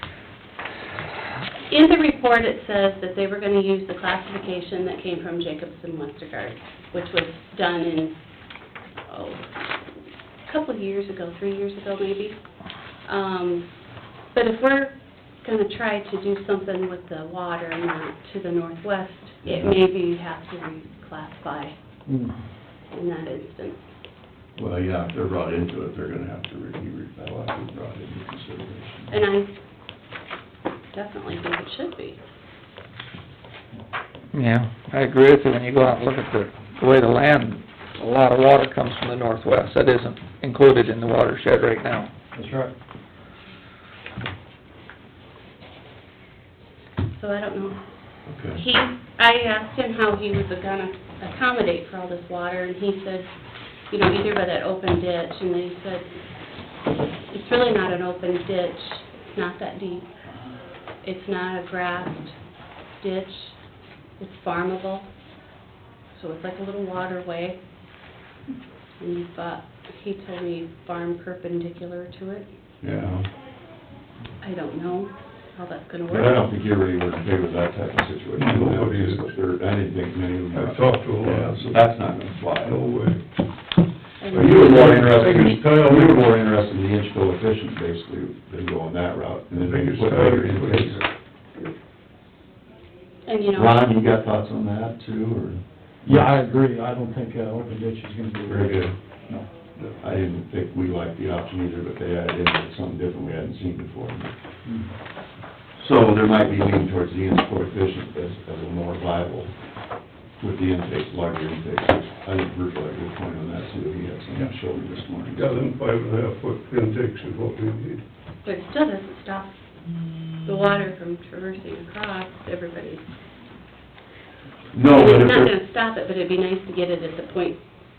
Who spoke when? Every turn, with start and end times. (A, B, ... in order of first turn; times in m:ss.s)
0:01.7-0:08.2 A
0:09.1-0:09.5 A
0:10.4-0:12.4 A
0:13.0-0:13.7 A
0:14.3-0:21.7 A
0:19.4-0:19.8 B
0:22.1-0:22.3 C
0:22.9-0:23.8 A
0:24.6-0:29.1 B
0:29.1-0:29.5 A
0:30.9-0:32.2 A
0:34.3-0:42.1 D
0:42.3-0:42.7 C
0:47.1-0:47.8 A
0:48.3-0:48.6 B
0:48.5-0:53.3 A
0:53.9-0:56.1 A
0:57.3-1:00.1 A
1:01.0-1:02.4 A
1:03.0-1:03.6 A
1:04.2-1:05.1 A
1:06.2-1:07.6 A
1:09.0-1:12.5 A
1:12.8-1:13.3 B
1:14.4-1:16.4 A
1:16.1-1:22.8 B
1:18.4-1:19.3 E
1:20.5-1:21.7 E
1:22.6-1:23.2 E
1:24.2-1:25.4 A
1:24.3-1:31.0 B
1:24.3-1:26.2 E
1:29.6-1:31.1 E
1:33.2-1:33.8 A
1:33.5-1:35.6 B
1:36.0-1:39.5 C
1:38.5-1:38.9 B
1:40.0-1:44.4 B
1:44.6-1:44.9 C
1:45.8-1:49.5 B
1:50.4-1:55.5 B
1:55.3-1:58.0 E
1:58.4-1:59.6 A
2:00.4-2:03.1 A
2:04.7-2:05.5 B
2:04.9-2:07.6 A